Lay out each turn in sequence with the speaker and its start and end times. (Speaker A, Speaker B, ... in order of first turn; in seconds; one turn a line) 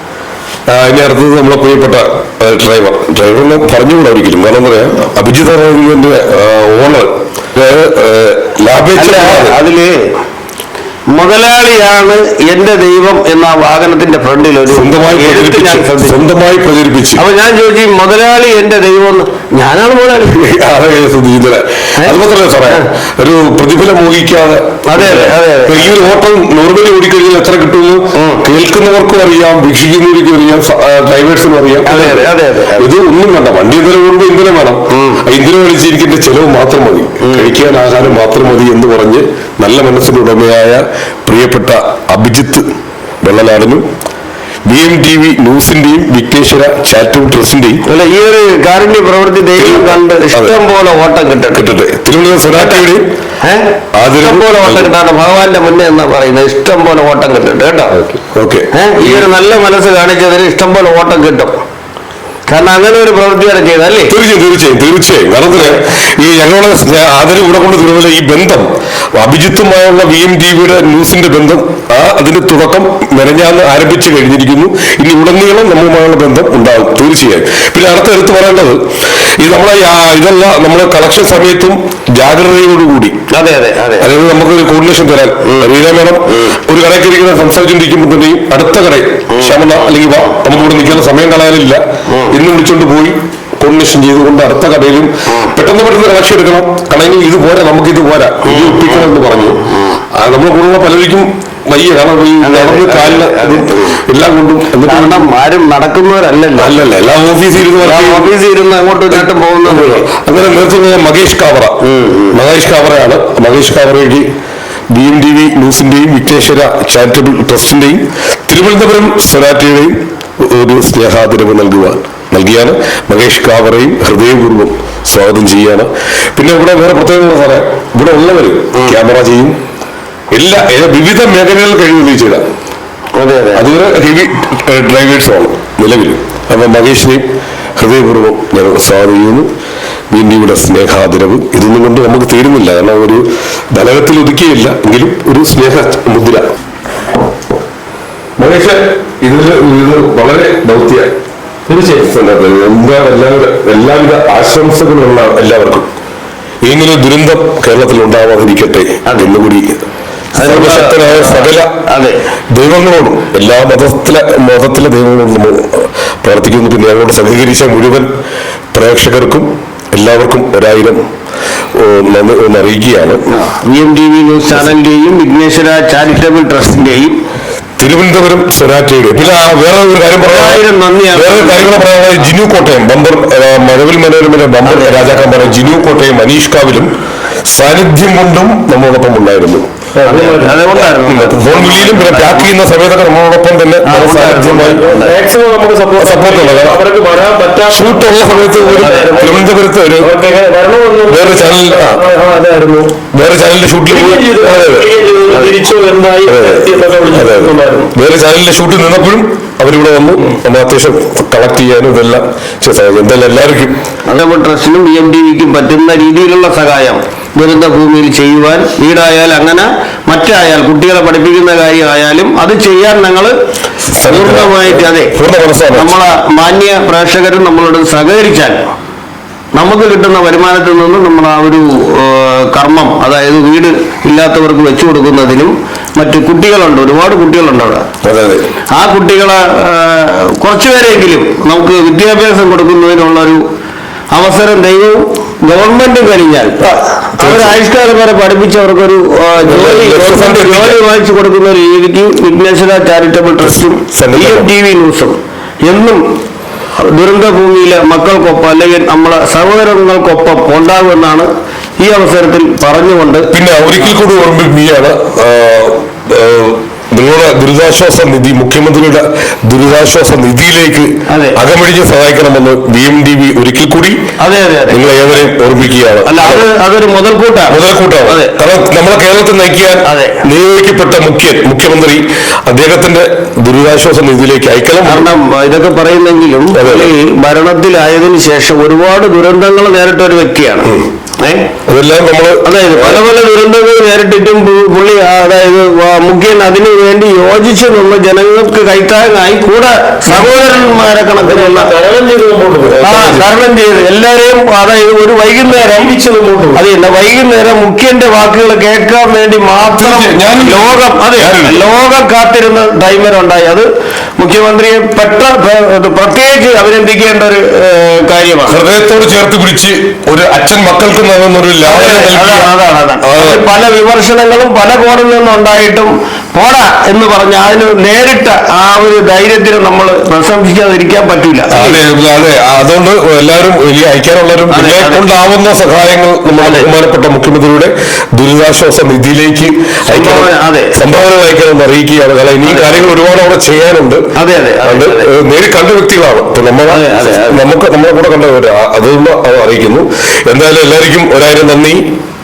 Speaker A: 0.7-9.6
Speaker B: 8.9-10.0
Speaker B: 11.1-16.2
Speaker A: 14.7-17.2
Speaker B: 17.2-20.3
Speaker A: 20.2-42.7
Speaker B: 24.9-26.0
Speaker B: 28.2-28.4
Speaker B: 31.9-32.9
Speaker B: 34.9-35.2
Speaker B: 37.2-38.2
Speaker A: 43.2-43.9
Speaker A: 44.7-47.8
Speaker B: 47.9-51.6
Speaker A: 49.6-50.5
Speaker A: 51.5-53.1
Speaker B: 52.5-52.9
Speaker B: 53.4-58.0
Speaker A: 53.9-54.9
Speaker A: 58.3-59.3
Speaker B: 58.7-61.5
Speaker B: 62.5-64.1
Speaker A: 64.1-78.8
Speaker B: 65.5-65.8
Speaker A: 79.4-83.2
Speaker B: 83.3-84.1
Speaker A: 84.0-99.6
Speaker B: 85.5-85.7
Speaker B: 89.3-89.9
Speaker B: 92.1-92.4
Speaker B: 98.4-99.1
Speaker A: 100.2-105.2
Speaker B: 102.4-104.0
Speaker B: 104.8-106.8
Speaker A: 106.6-108.3
Speaker B: 107.8-110.0
Speaker A: 109.1-111.8
Speaker B: 111.8-112.4
Speaker A: 112.3-114.3
Speaker A: 114.9-129.6
Speaker A: 130.3-132.5
Speaker B: 133.2-133.7
Speaker A: 133.6-139.5
Speaker A: 140.1-146.4
Speaker A: 148.4-151.1
Speaker C: 151.7-152.1
Speaker A: 151.9-155.9
Speaker A: 156.6-159.7
Speaker B: 159.1-159.3
Speaker A: 160.4-161.7
Speaker B: 160.4-162.2
Speaker A: 162.5-168.1
Speaker A: 168.7-171.0
Speaker A: 171.8-173.2
Speaker B: 173.3-177.2
Speaker A: 177.8-186.9
Speaker B: 180.2-181.8
Speaker B: 184.6-185.3
Speaker A: 187.5-189.7
Speaker C: 190.0-190.7
Speaker B: 190.0-192.5
Speaker A: 190.9-194.8
Speaker B: 193.8-195.2
Speaker C: 194.8-203.0
Speaker A: 196.0-196.8
Speaker A: 197.7-200.1
Speaker B: 198.8-199.4
Speaker A: 201.1-202.0
Speaker A: 203.1-204.9
Speaker C: 203.9-207.9
Speaker A: 206.2-213.8
Speaker B: 214.1-223.3
Speaker A: 223.9-226.0
Speaker B: 224.0-225.2
Speaker B: 225.7-228.6
Speaker B: 229.6-237.9
Speaker A: 238.0-238.5
Speaker B: 238.7-243.4
Speaker B: 244.1-256.0
Speaker A: 247.2-247.6
Speaker A: 249.4-250.8
Speaker A: 253.4-254.5
Speaker B: 256.8-263.3
Speaker A: 263.3-274.0
Speaker B: 271.1-271.4
Speaker B: 274.2-274.8
Speaker A: 274.7-276.5
Speaker B: 276.1-278.4
Speaker A: 277.5-285.1
Speaker B: 279.9-280.2
Speaker B: 284.9-290.7
Speaker A: 286.5-286.9
Speaker B: 291.2-291.5
Speaker A: 291.7-293.0
Speaker B: 292.4-301.7
Speaker C: 300.1-303.2
Speaker B: 302.8-305.9
Speaker C: 305.7-306.6
Speaker B: 306.6-313.7
Speaker A: 309.7-311.6
Speaker B: 314.2-318.6
Speaker A: 318.5-322.5
Speaker B: 321.6-331.8
Speaker A: 323.0-323.4
Speaker A: 331.5-344.1
Speaker B: 334.5-335.0
Speaker B: 336.4-336.7
Speaker B: 339.9-340.7
Speaker B: 342.4-342.9
Speaker B: 344.2-345.1
Speaker A: 344.6-351.9
Speaker B: 346.7-347.5